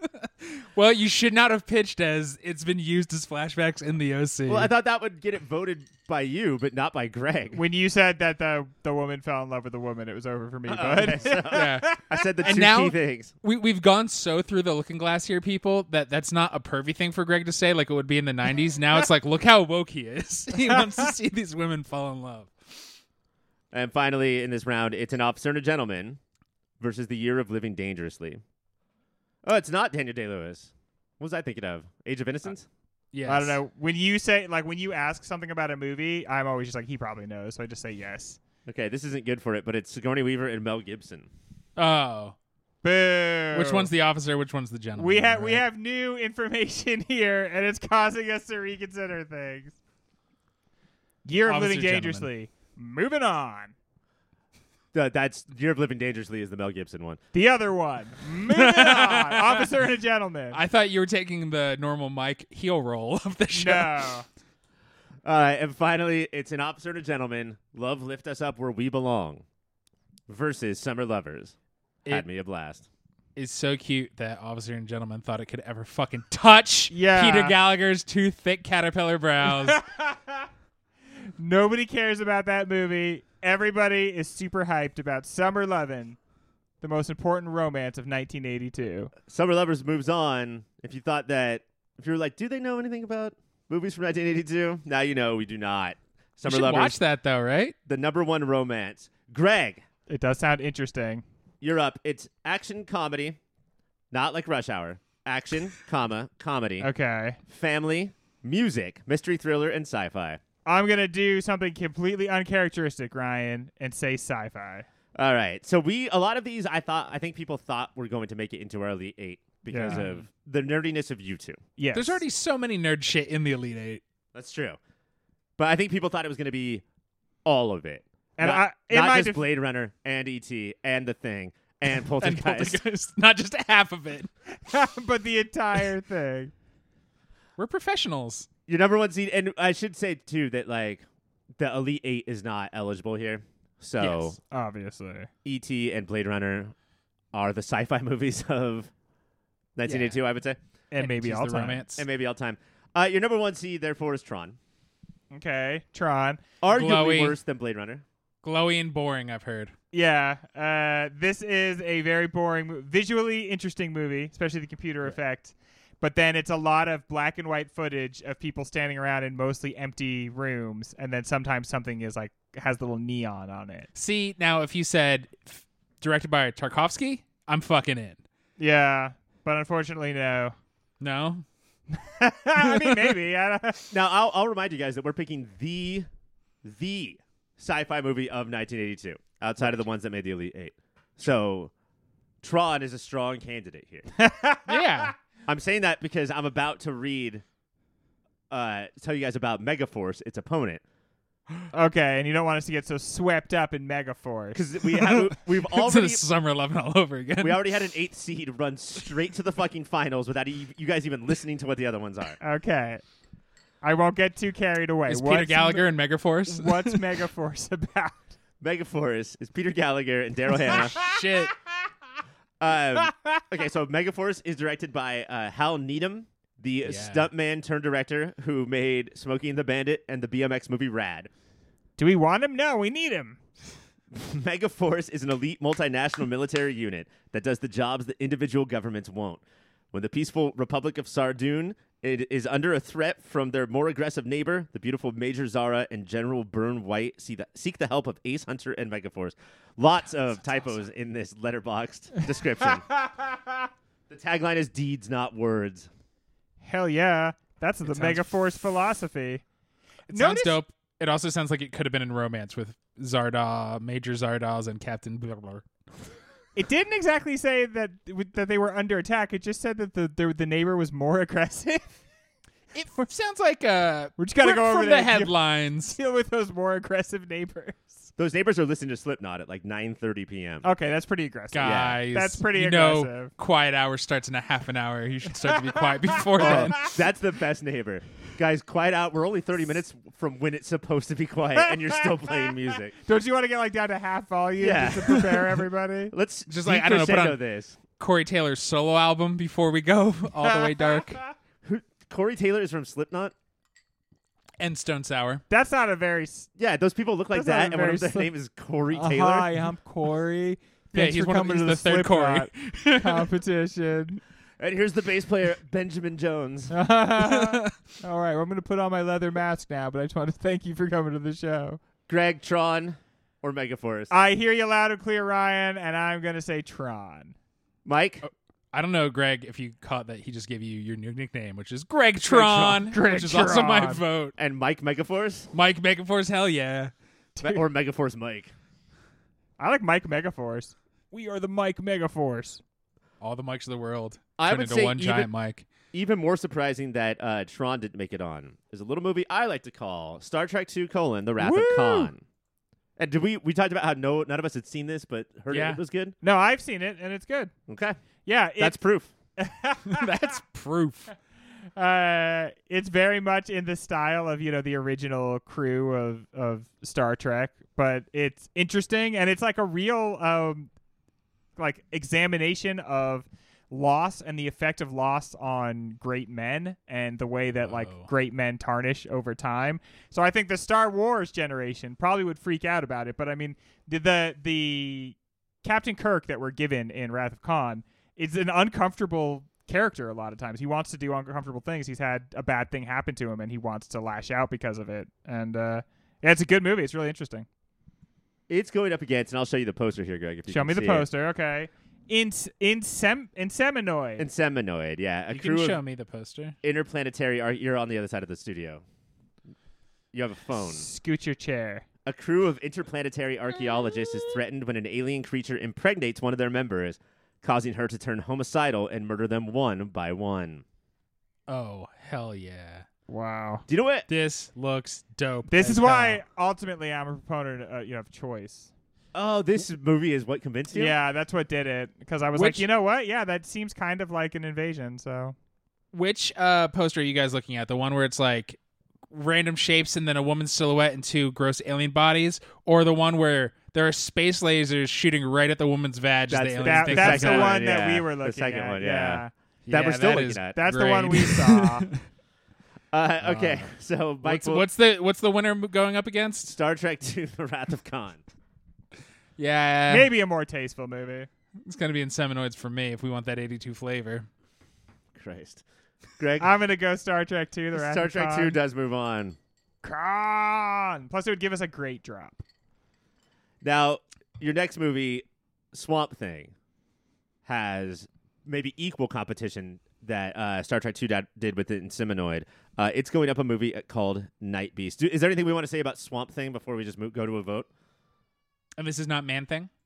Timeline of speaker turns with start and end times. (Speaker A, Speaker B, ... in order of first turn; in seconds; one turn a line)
Speaker A: 0.2-4.7
Speaker B: 4.5-7.6
Speaker C: 7.5-12.2
Speaker B: 10.7-13.3
Speaker A: 11.4-23.0
Speaker B: 23.7-26.2
Speaker B: 26.8-28.4
Speaker B: 29.4-32.6
Speaker A: 33.1-33.6
Speaker C: 33.2-38.4
Speaker B: 38.6-41.3
Speaker A: 41.8-42.3
Speaker C: 42.8-43.9
Speaker A: 43.5-45.6
Speaker C: 45.0-49.8
Speaker C: 51.2-53.7
Speaker A: 51.5-52.3
Speaker B: 54.9-57.2
Speaker C: 57.3-60.6
Speaker A: 58.5-59.7
Speaker A: 60.5-64.1
Speaker C: 63.5-64.2
Speaker B: 65.2-69.4
Speaker B: 70.3-71.5
Speaker B: 72.1-72.8
Speaker A: 73.3-79.8
Speaker C: 76.9-77.5
Speaker C: 79.5-80.5
Speaker C: 81.4-86.2
Speaker C: 86.8-89.1
Speaker B: 89.3-97.0
Speaker A: 96.4-97.7
Speaker B: 97.8-99.8
Speaker C: 100.1-101.2
Speaker B: 101.6-103.4
Speaker B: 104.1-106.9
Speaker C: 106.8-107.4
Speaker B: 107.5-110.4
Speaker C: 110.7-114.8
Speaker B: 115.2-121.6
Speaker C: 119.7-120.0
Speaker A: 119.9-120.2
Speaker C: 121.8-122.2
Speaker A: 121.9-124.0
Speaker B: 124.3-124.8
Speaker B: 125.6-126.8
Speaker B: 127.4-132.8
Speaker C: 128.4-129.4
Speaker A: 132.2-134.3
Speaker C: 134.5-136.5
Speaker A: 137.6-138.5
Speaker B: 138.7-141.0
Speaker B: 141.6-144.4
Speaker A: 144.0-144.3
Speaker C: 144.5-145.3
Speaker B: 145.4-146.7
Speaker B: 147.3-148.9
Speaker B: 149.8-150.6
Speaker A: 149.8-150.2
Speaker C: 150.9-151.8
Speaker A: 151.0-152.0
Speaker B: 152.0-154.6
Speaker C: 155.3-156.4
Speaker B: 156.6-158.0
Speaker A: 156.7-157.3
Speaker A: 158.4-159.7
Speaker C: 159.9-173.9
Speaker A: 173.9-178.2
Speaker C: 178.6-180.5
Speaker A: 181.0-181.4
Speaker C: 181.9-183.9
Speaker A: 182.6-183.1
Speaker B: 183.9-186.1
Speaker B: 186.6-191.7
Speaker B: 192.4-194.1
Speaker C: 194.2-195.1
Speaker A: 194.7-195.1
Speaker B: 195.5-197.4
Speaker B: 198.5-200.8
Speaker C: 201.7-204.6
Speaker B: 204.5-206.2
Speaker A: 204.9-207.6
Speaker B: 207.4-212.4
Speaker C: 212.4-213.0
Speaker C: 213.8-215.9
Speaker A: 215.1-217.2
Speaker C: 216.4-218.3
Speaker B: 218.6-221.0
Speaker A: 220.7-221.5
Speaker C: 220.7-221.5
Speaker B: 222.6-231.3
Speaker C: 223.0-223.4
Speaker A: 226.8-227.3
Speaker C: 232.0-233.4
Speaker B: 234.1-252.8
Speaker C: 252.6-253.5
Speaker B: 254.1-255.9
Speaker C: 256.6-259.4
Speaker A: 257.8-258.4
Speaker A: 260.1-265.6
Speaker C: 260.1-260.6
Speaker C: 266.6-272.0
Speaker A: 272.7-276.0
Speaker C: 274.2-278.1
Speaker B: 278.2-280.7
Speaker C: 280.6-283.3
Speaker A: 281.5-286.9
Speaker B: 281.6-282.0
Speaker C: 285.4-286.9
Speaker B: 286.4-292.9
Speaker C: 291.7-296.1
Speaker B: 294.6-295.5
Speaker B: 296.1-297.8
Speaker A: 296.5-297.4
Speaker A: 298.0-301.2
Speaker C: 300.4-301.1
Speaker B: 301.6-303.3
Speaker A: 304.6-305.4
Speaker C: 305.5-306.5
Speaker B: 306.6-309.5
Speaker C: 307.3-308.3
Speaker C: 308.9-314.2
Speaker A: 310.9-313.3
Speaker B: 314.6-316.7
Speaker C: 316.7-321.8
Speaker A: 317.2-317.7
Speaker B: 322.1-324.1
Speaker C: 324.1-327.3
Speaker B: 327.8-328.2
Speaker A: 328.2-334.3
Speaker C: 332.3-334.0
Speaker B: 332.4-332.8
Speaker B: 334.4-335.5
Speaker A: 335.5-336.9
Speaker C: 337.4-337.6
Speaker B: 337.4-338.5
Speaker C: 339.6-342.6
Speaker A: 343.2-345.6
Speaker B: 344.4-345.3
Speaker B: 345.9-352.2
Speaker C: 351.4-352.1
Speaker B: 353.0-356.1
Speaker A: 355.5-355.8
Speaker C: 356.2-357.5
Speaker B: 357.7-358.0
Speaker C: 358.2-358.8
Speaker B: 358.6-359.1
Speaker C: 359.4-360.1
Speaker A: 359.9-361.1
Speaker C: 361.8-370.7
Speaker C: 371.6-397.5
Speaker A: 377.6-378.1
Speaker B: 398.5-401.1
Speaker C: 400.5-404.3
Speaker B: 404.2-405.8
Speaker A: 405.3-406.6
Speaker B: 406.6-408.8
Speaker B: 410.1-410.9
Speaker C: 410.6-411.9
Speaker B: 412.1-420.6
Speaker A: 421.5-422.9
Speaker C: 423.1-423.6
Speaker B: 423.7-424.1
Speaker A: 424.1-426.2
Speaker C: 425.5-428.7
Speaker B: 429.1-430.9
Speaker C: 430.7-435.3
Speaker A: 432.3-432.6
Speaker A: 435.9-438.6
Speaker A: 439.1-447.6
Speaker B: 446.3-450.6
Speaker C: 446.6-449.3
Speaker A: 449.6-452.0
Speaker C: 450.5-451.9
Speaker B: 452.9-454.7
Speaker A: 453.2-453.7
Speaker A: 454.2-456.5
Speaker B: 456.5-458.2
Speaker A: 459.4-460.1
Speaker C: 459.9-461.3
Speaker A: 461.6-464.3
Speaker B: 465.1-465.6
Speaker B: 466.2-466.5
Speaker C: 466.4-468.6
Speaker B: 467.7-469.4
Speaker C: 469.8-472.4
Speaker B: 473.6-476.5
Speaker B: 477.4-487.7
Speaker A: 488.8-489.7